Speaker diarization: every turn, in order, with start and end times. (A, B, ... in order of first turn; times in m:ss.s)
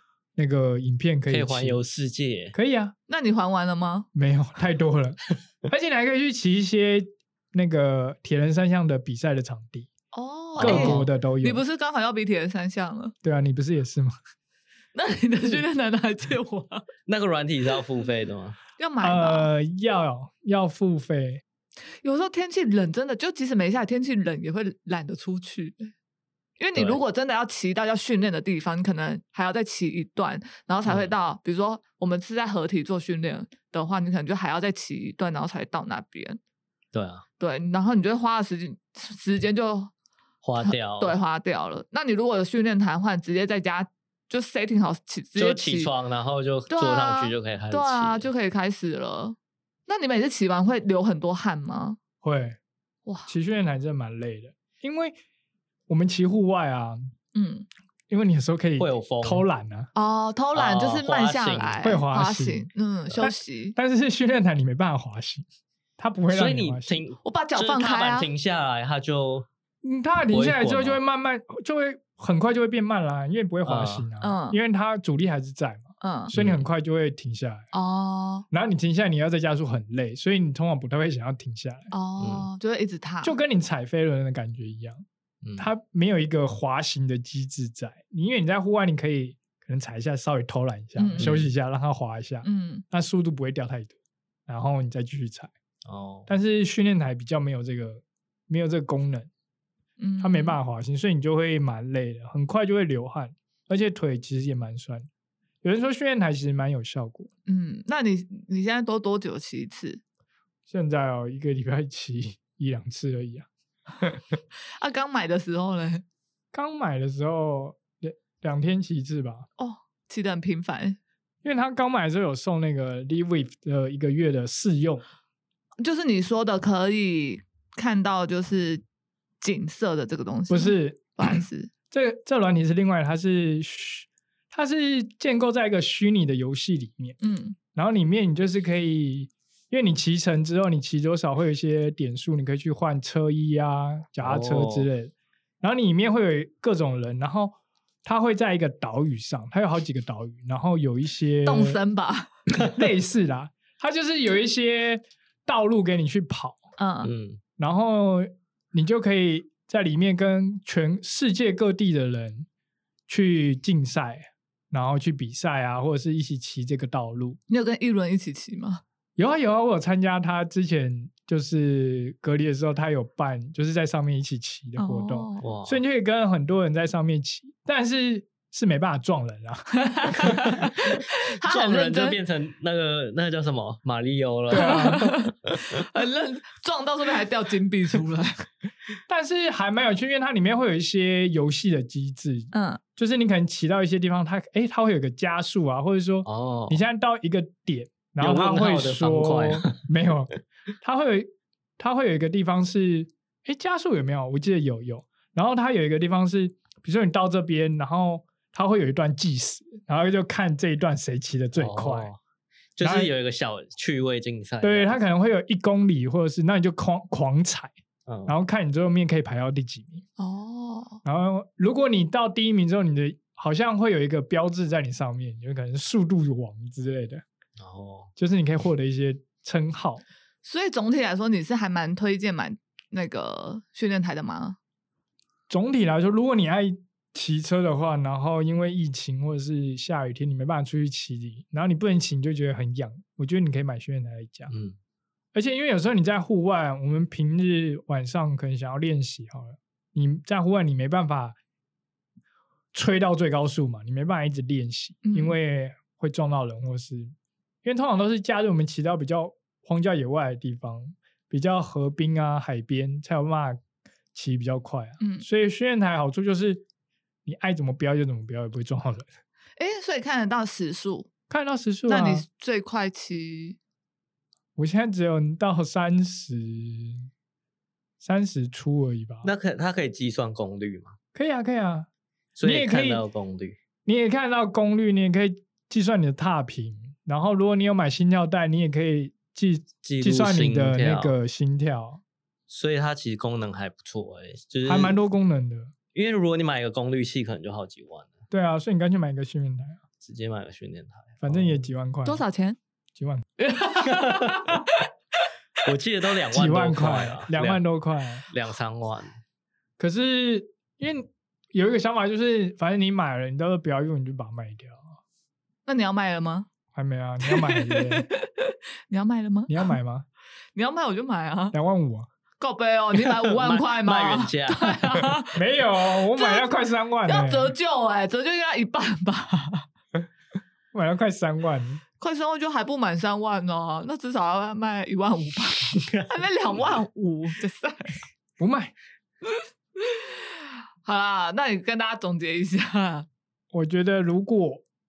0:00.4-0:01.8 A
0:01.3-0:02.6 B
0:02.5-0:02.9 A
0:03.1-0:04.1 C
0:04.2-0:09.9 A
0:10.1-0:13.1 C
0:10.6-0:11.1 B
0:10.6-0:11.6 A
0:13.2-0:14.2 A
0:14.9-0:16.8 C
0:17.1-0:18.6 B
0:18.8-0:19.5 C
0:19.0-0:21.4 A
0:22.0-0:25.9 C
0:26.6-0:36.4 C
0:26.8-0:27.0 B
0:30.8-0:31.2 B
0:36.9-0:37.2 B
0:37.4-0:39.9 C
0:40.4-0:41.2 B
0:40.6-0:46.0 C
0:45.4-0:48.3 B
0:46.7-0:49.4 C
0:49.9-0:52.0 C
0:52.2-0:52.6 A
0:53.1-0:53.3 C
0:53.3-0:55.2 A
0:55.9-0:57.1 A
0:57.4-0:57.7 C
0:58.1-0:59.9 A
0:58.8-0:59.5 B
0:59.9-1:03.8 C
1:00.5-1:01.9 B
1:01.8-1:05.4 A
1:06.0-1:07.0 A
1:06.3-1:09.5 B
1:07.2-1:08.3 C
1:09.8-1:17.7 A
1:10.3-1:11.0 B
1:13.6-1:14.1 B
1:14.2-1:14.6 C
1:16.0-1:16.3 C
1:16.3-1:16.7 B
1:17.7-1:18.5 C
1:18.5-1:21.9 A
1:21.9-1:23.4 C
1:22.2-1:22.5 B
1:23.2-1:25.0 A
1:25.4-1:25.7 B
1:25.6-1:33.9 A
1:31.0-1:31.3 C
1:31.2-1:31.5 B
1:32.4-1:32.8 C
1:34.5-1:35.5 A
1:35.8-1:36.3 B
1:36.3-1:39.3 A
1:40.0-1:40.6 C
1:40.2-1:45.1 A
1:45.6-1:47.3 A
1:47.5-1:50.0 C
1:50.7-1:53.5 A
1:54.8-1:56.0 C
1:56.5-1:59.5 A
1:59.6-2:01.0 C
2:01.4-2:05.0 A
2:05.8-2:08.8 C
2:09.4-2:11.7 C
2:10.5-2:11.3 A
2:11.9-2:17.2 A
2:17.2-2:17.6 C
2:17.8-2:31.8 A
2:24.2-2:24.9 B
2:31.4-2:32.3 C
2:32.6-2:36.6 A
2:36.8-2:37.1 C
2:37.0-2:37.4 B
2:37.6-2:42.5 A
2:43.1-2:47.4 A
2:47.5-2:48.8 C
2:49.2-3:00.3 A
2:54.8-2:55.4 C
2:55.4-2:55.8 B
2:59.9-3:02.2 C
3:01.4-3:05.2 B
3:04.5-3:05.1 A
3:04.5-3:08.5 C
3:09.1-3:32.1 A
3:12.5-3:12.8 C
3:16.2-3:16.8 B
3:18.2-3:19.8 B
3:31.5-3:32.2 B
3:32.8-3:35.0 B
3:32.8-3:33.1 A
3:34.6-3:37.7 A
3:38.1-3:38.4 B
3:38.3-3:40.0 A
3:40.2-3:41.0 C
3:41.0-3:47.2 A
3:47.6-3:48.1 B
3:48.2-3:50.0 A
3:50.4-3:54.6 C
3:55.5-4:04.5 A
4:04.5-4:04.8 B
4:05.3-4:11.4 A
4:12.7-4:23.6 A
4:15.0-4:15.4 C
4:24.1-4:26.6 A
4:25.0-4:25.2 C
4:27.2-4:29.1 A
4:29.6-4:31.1 C
4:31.3-4:32.2 A
4:31.9-4:33.6 C
4:34.6-4:37.1 A
4:38.0-4:39.3 A
4:39.2-4:41.0 B
4:41.2-4:41.9 A
4:42.4-4:43.6 B
4:42.4-4:43.0 A
4:43.9-4:52.0 A
4:49.8-4:51.2 B
4:52.5-4:55.0 B
4:54.7-4:55.7 A
4:55.9-4:58.2 B
4:58.3-4:59.8 A
5:00.0-5:01.6 B
5:01.2-5:02.2 A
5:02.0-5:02.6 C
5:03.0-5:03.2 A
5:03.4-5:04.8 C
5:03.9-5:04.4 B
5:05.6-5:07.6 B
5:06.3-5:08.3 A
5:08.3-5:09.2 B
5:09.8-5:14.9 A
5:15.7-5:16.5 C
5:16.8-5:18.0 A
5:17.3-5:19.8 C
5:19.5-5:20.1 A
5:20.5-5:21.6 C
5:21.5-5:22.1 A
5:22.4-5:25.4 C
5:22.9-5:25.0 B
5:25.3-5:27.5 A
5:26.1-5:29.7 C
5:30.7-5:31.8 A
5:32.0-5:38.0 C
5:38.4-5:38.7 A
5:40.8-5:43.1 C
5:43.5-5:44.6 A